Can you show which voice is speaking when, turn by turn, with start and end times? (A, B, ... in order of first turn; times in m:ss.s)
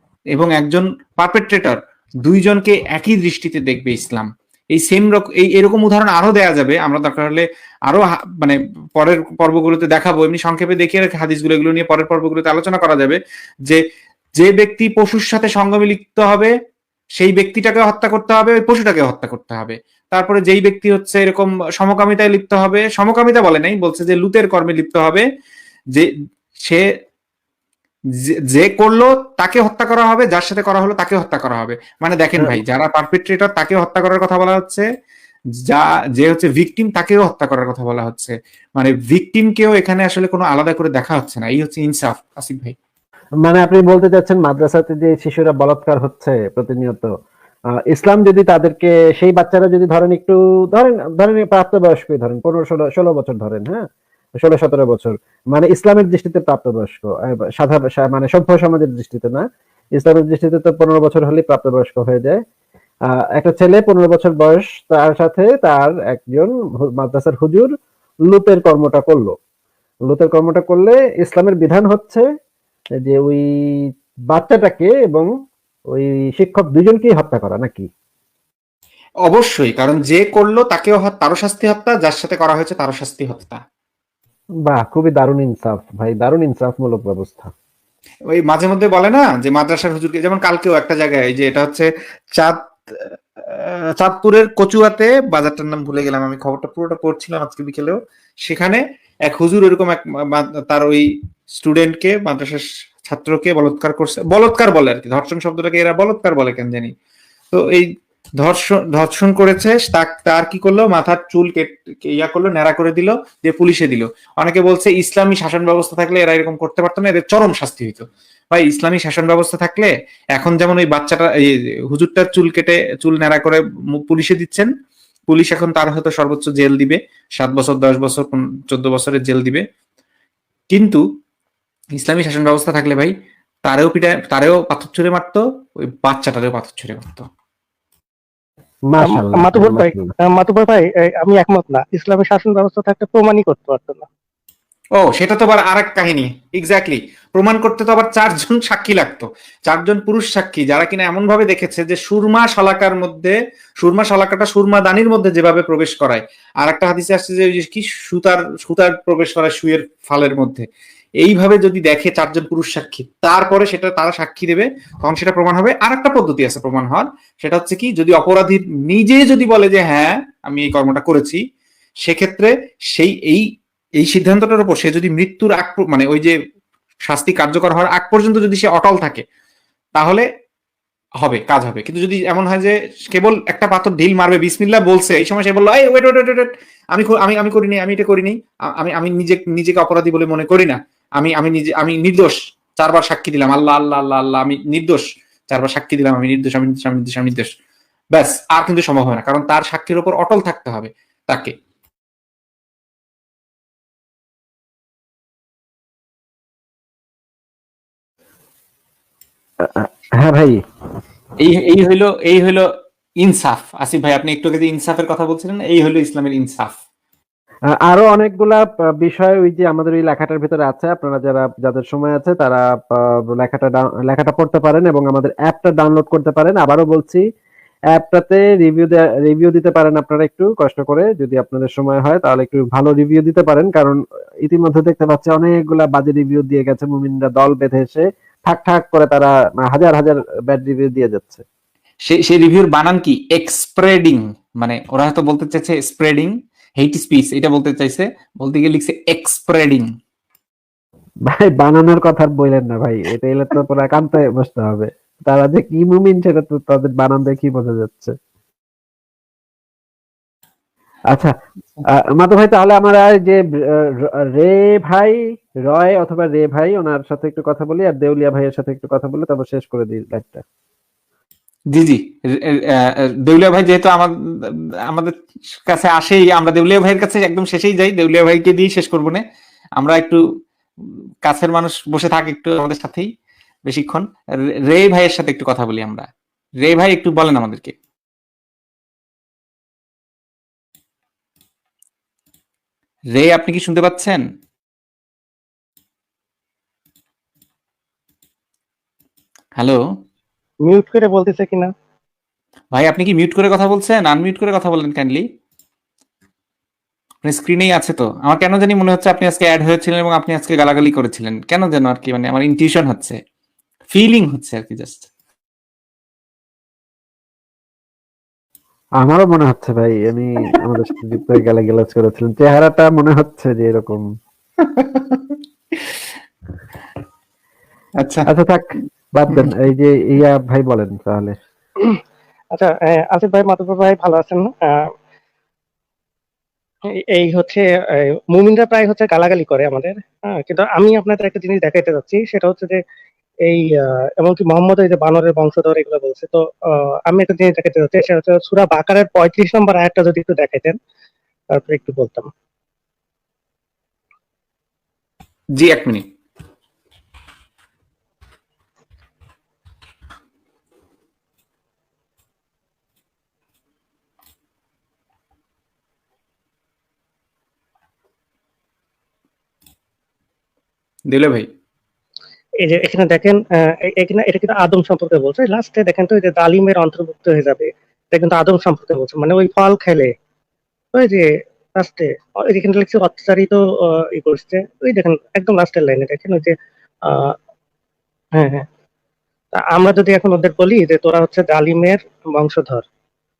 0:00.3-0:13.8 A
0:14.4-0:16.5 A
0:17.2-0:25.2 A
0:28.5-0:34.8 A
0:35.7-0:42.7 A
0:43.4-0:47.1 B
0:47.9-0:53.8 B
0:54.4-0:59.4 B
1:00.0-1:02.4 B
1:03.4-1:07.7 B
1:08.3-1:09.4 B
1:10.1-1:12.2 B
1:13.0-1:13.4 B
1:14.3-1:15.3 B
1:15.9-1:17.9 B
1:19.3-1:23.6 A
1:24.6-1:27.5 B
1:28.4-1:41.0 A
1:41.6-1:46.9 A
1:47.5-1:47.9 A
1:48.4-2:04.7 A
2:05.3-2:09.6 A
2:10.7-2:11.0 A
2:12.0-2:13.1 A
2:13.6-2:17.2 A
2:18.9-2:20.1 B
2:19.0-2:24.0 C
2:25.0-2:40.6 A
2:41.2-2:51.4 A
2:52.0-2:53.4 A
2:54.0-2:56.3 A
2:57.1-2:59.2 A
2:59.9-3:00.2 A
3:01.2-3:17.5 A
3:18.1-3:21.5 A
3:29.6-3:30.6 B
3:31.4-3:32.7 A
3:33.2-3:36.8 A
3:37.8-3:47.2 B
3:47.9-4:01.4 B
4:02.0-4:09.8 A
4:11.3-4:18.1 B
4:21.9-4:25.2 B
4:25.7-4:30.4 B
4:31.7-4:34.1 A
4:35.7-4:39.2 A
4:39.8-4:40.2 A
4:40.8-4:43.1 A
4:43.7-4:44.0 A
4:44.7-4:46.1 A
4:46.6-4:47.7 A
4:53.1-4:54.2 A
5:00.6-5:01.7 C
5:02.7-5:05.2 A
5:07.2-5:13.2 A
5:13.9-5:15.1 A
5:19.0-5:24.0 B
5:24.6-5:26.0 A
5:28.0-5:28.3 A
5:28.2-5:31.3 B
5:32.5-5:34.9 C
5:37.1-5:42.8 C
5:43.4-5:50.8 C
5:51.5-5:52.3 C
5:55.6-5:56.0 A
6:11.1-6:11.5 A
6:12.6-6:20.1 C
6:20.9-6:26.5 C
6:27.0-6:27.3 C
6:28.4-6:28.6 C
6:29.5-6:32.8 C